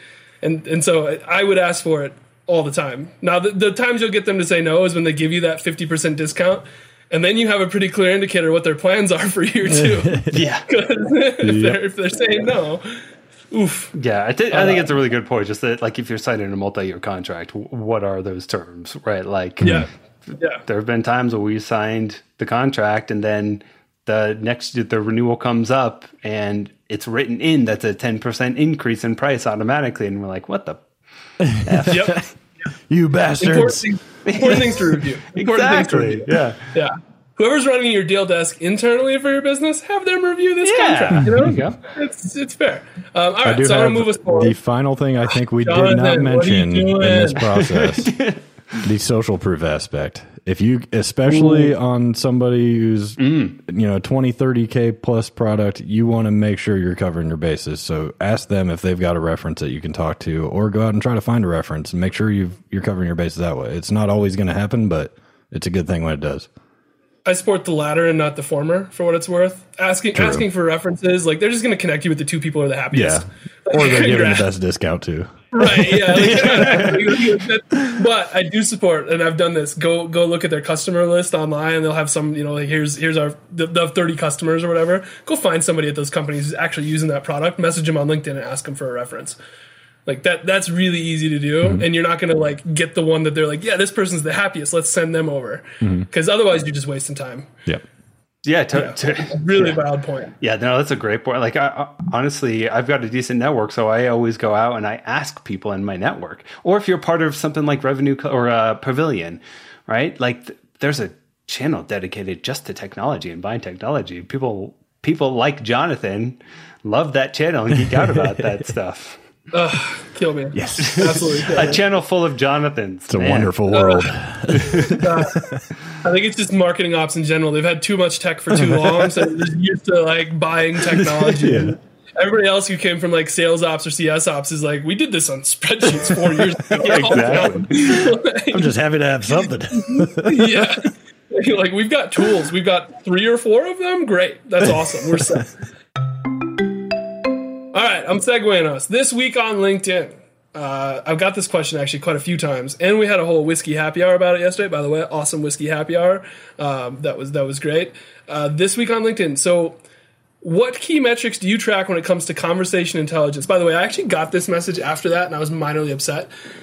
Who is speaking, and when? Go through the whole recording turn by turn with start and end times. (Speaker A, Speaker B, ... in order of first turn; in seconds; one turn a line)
Speaker A: 0.4-13.9
Speaker B: 9.8-10.4
Speaker C: 10.3-10.7
Speaker B: 11.4-11.8
Speaker C: 13.9-30.8
Speaker A: 14.5-14.9
Speaker B: 19.6-19.9
Speaker A: 19.6-20.6
Speaker B: 31.4-32.3
Speaker C: 31.6-32.2
Speaker A: 31.9-32.2
Speaker B: 32.9-33.9
Speaker A: 33.4-44.5
Speaker C: 34.2-36.6
Speaker C: 40.6-41.8
Speaker B: 41.2-41.5
Speaker B: 43.4-48.1
Speaker A: 45.3-47.5
Speaker C: 47.5-48.8
Speaker B: 48.8-66.5
Speaker C: 51.3-51.7
Speaker C: 53.2-53.5
Speaker A: 67.2-74.5
Speaker B: 70.1-70.5
Speaker B: 72.9-76.7
Speaker A: 75.5-89.4
Speaker C: 76.1-77.2
Speaker A: 90.0-97.5
Speaker B: 95.8-96.1
Speaker C: 98.4-99.8
Speaker A: 98.7-100.3
Speaker C: 100.4-119.2
Speaker B: 117.8-118.6
Speaker A: 119.5-121.8
Speaker B: 120.5-121.6
Speaker C: 120.8-123.8
Speaker B: 123.1-125.6
Speaker A: 123.7-124.1
Speaker C: 124.5-125.0
Speaker A: 124.7-125.4
Speaker A: 126.0-138.7
Speaker B: 128.6-129.1
Speaker B: 131.4-131.7
Speaker C: 136.8-138.1
Speaker B: 138.5-140.7
Speaker A: 139.8-145.5
Speaker B: 144.6-145.4
Speaker A: 147.7-159.8
Speaker A: 160.4-166.3